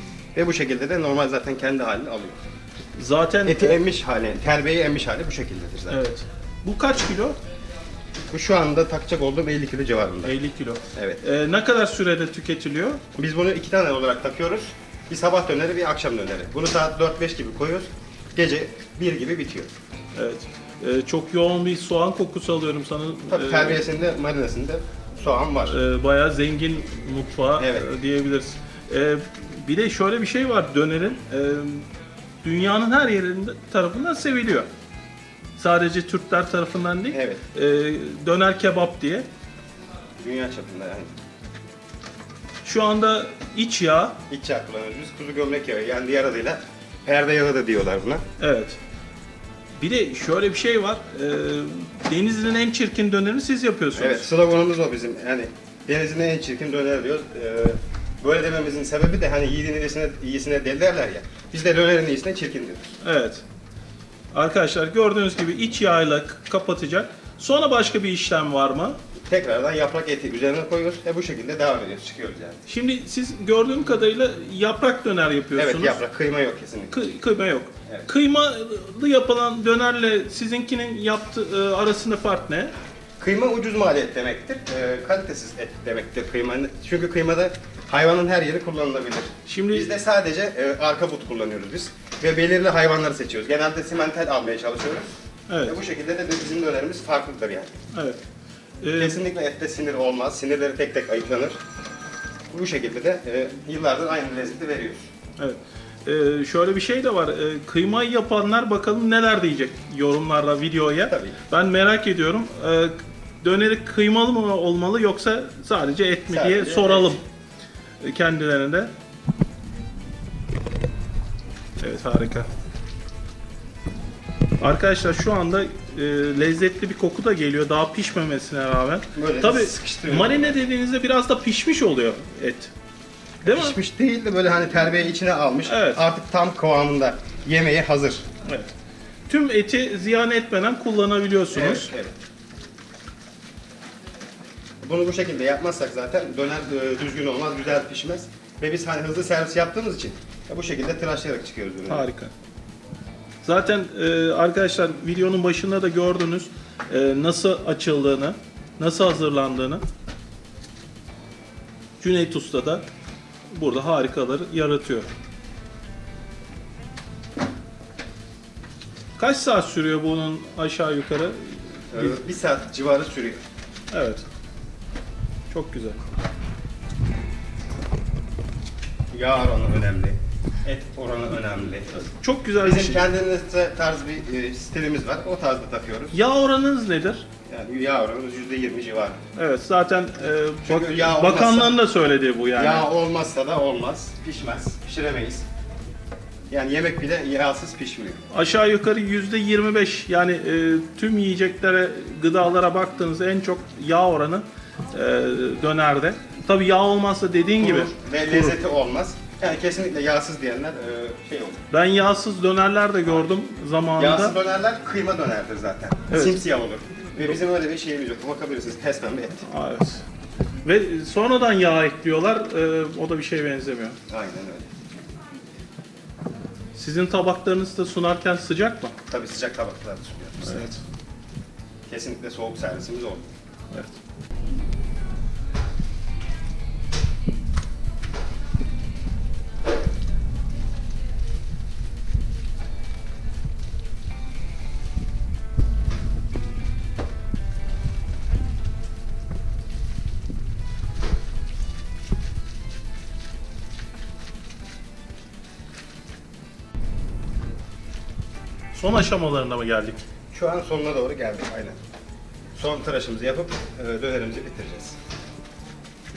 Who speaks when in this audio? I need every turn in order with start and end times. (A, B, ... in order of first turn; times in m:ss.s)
0:00.3-0:02.4 A
0:03.0-0:03.8 B
0:03.4-0:06.0 A
0:05.9-0:07.4 B
0:08.3-0:10.3 A
0:10.2-0:13.0 B
0:10.9-0:11.2 A
0:13.1-0:19.7 A
0:20.1-0:23.8 B
0:23.3-0:25.8 A
0:25.7-0:31.8 B
0:27.6-0:27.9 A
0:32.4-0:34.7 B
0:35.6-0:39.3 B
0:37.1-0:37.4 A
0:40.2-0:41.1 A
0:42.6-0:44.2 B
0:44.3-0:48.2 A
0:48.4-0:48.8 B
0:49.8-0:54.3 B
0:54.0-1:02.9 A
1:03.0-1:03.4 B
1:04.3-1:09.0 B
1:09.3-1:12.6 A
1:12.7-1:16.0 B
1:15.5-1:17.0 A
1:16.9-1:22.7 B
1:23.2-1:35.1 A
1:29.5-1:29.9 B
1:35.5-1:35.8 B
1:35.6-1:37.8 A
1:37.9-1:38.2 B
1:38.8-1:39.2 B
1:39.0-1:41.6 A
1:42.5-1:45.1 A
1:45.4-1:57.2 B
1:51.0-1:51.4 A
1:56.3-1:57.2 A
1:58.0-1:58.9 B
2:01.8-2:02.5 B
2:04.6-2:12.7 B
2:09.1-2:10.6 A
2:13.4-2:18.2 A
2:13.4-2:13.8 B
2:15.7-2:16.0 B
2:18.4-2:18.7 B
2:19.3-2:21.9 B
2:21.5-2:22.2 A
2:24.8-2:32.1 A
2:31.9-2:32.3 B
2:33.4-2:39.8 B
2:42.0-2:42.9 B
2:43.5-2:45.1 B
2:49.2-2:52.2 B
2:51.9-2:53.4 A
2:53.9-2:54.2 B
2:55.5-2:56.0 B
2:59.1-3:02.1 A
3:02.0-3:03.1 B
3:02.6-3:06.2 A
3:06.1-3:07.2 B
3:07.4-3:09.2 A
3:09.3-3:12.9 B
3:10.6-3:11.8 A
3:12.5-3:15.5 A
3:16.5-3:18.2 A
3:18.3-3:28.6 B
3:27.6-3:31.6 A
3:31.7-3:34.4 B
3:34.0-3:39.4 A
3:36.1-3:36.4 B
3:39.4-3:40.0 B
3:40.6-3:44.0 B
3:44.1-3:44.7 A
3:46.7-3:48.9 B
3:49.1-3:50.7 A
3:50.4-3:50.8 B
3:51.9-3:53.2 A
4:18.7-4:20.0 B
4:20.3-4:21.8 A
4:22.6-4:25.0 A